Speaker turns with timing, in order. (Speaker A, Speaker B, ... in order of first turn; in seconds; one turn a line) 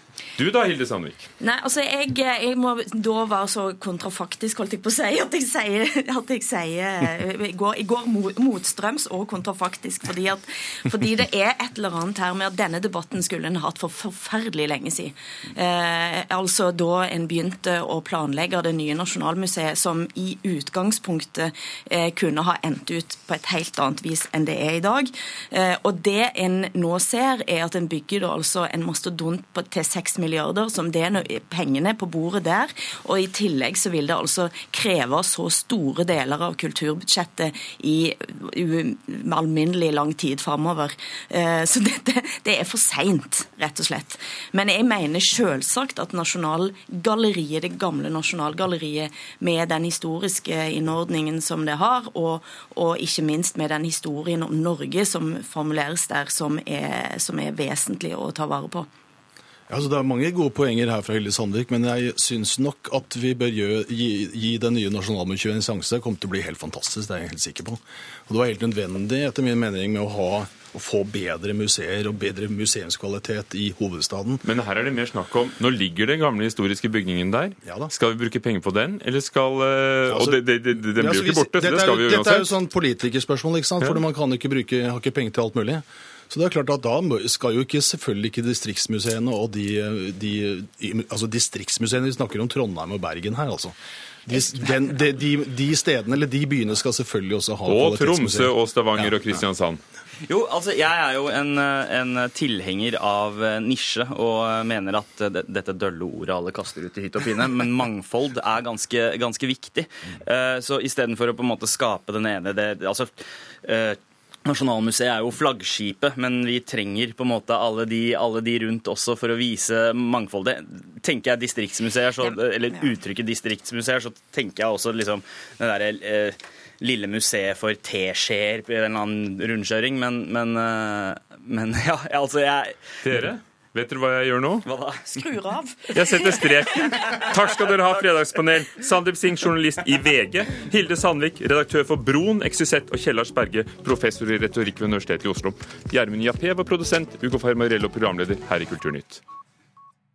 Speaker A: 0.4-1.3
Speaker B: 1.4-58.9
Speaker C: 59.7-74.4
Speaker A: 74.4-82.5
Speaker C: 77.6-77.9
Speaker C: 80.1-80.4
Speaker C: 80.9-93.7
Speaker C: 94.2-99.2
Speaker A: 97.7-99.8
Speaker D: 100.3-132.8
Speaker B: 122.2-123.0
Speaker A: 133.0-134.7
Speaker D: 134.6-135.1
Speaker B: 135.1-136.9
Speaker A: 135.9-149.2